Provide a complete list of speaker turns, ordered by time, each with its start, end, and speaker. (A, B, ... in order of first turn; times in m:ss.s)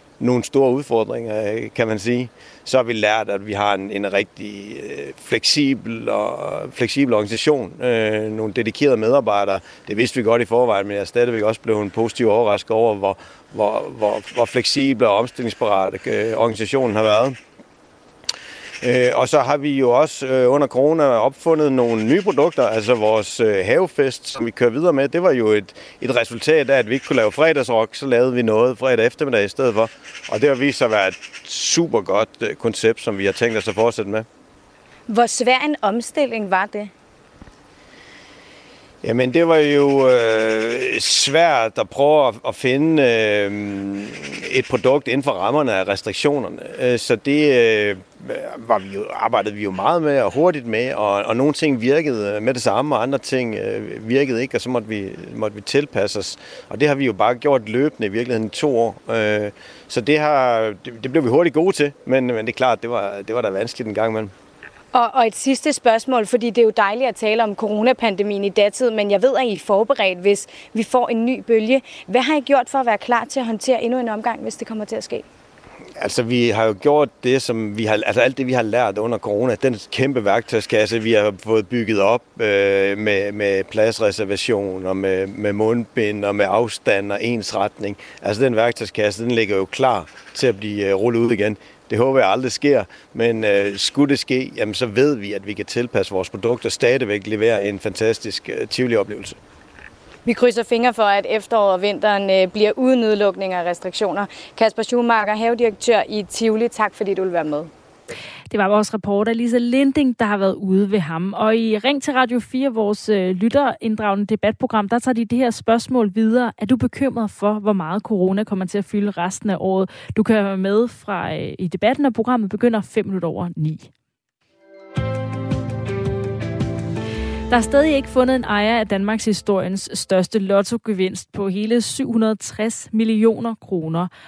0:00.2-0:17.4 A
0:18.8-0:34.3 A
0:35.1-0:36.9 B
0:39.0-1:04.3 A
1:04.9-1:15.2 B
1:16.0-1:39.4 A
1:40.3-1:47.7 B
1:48.5-2:03.9 C
2:07.5-2:14.1 C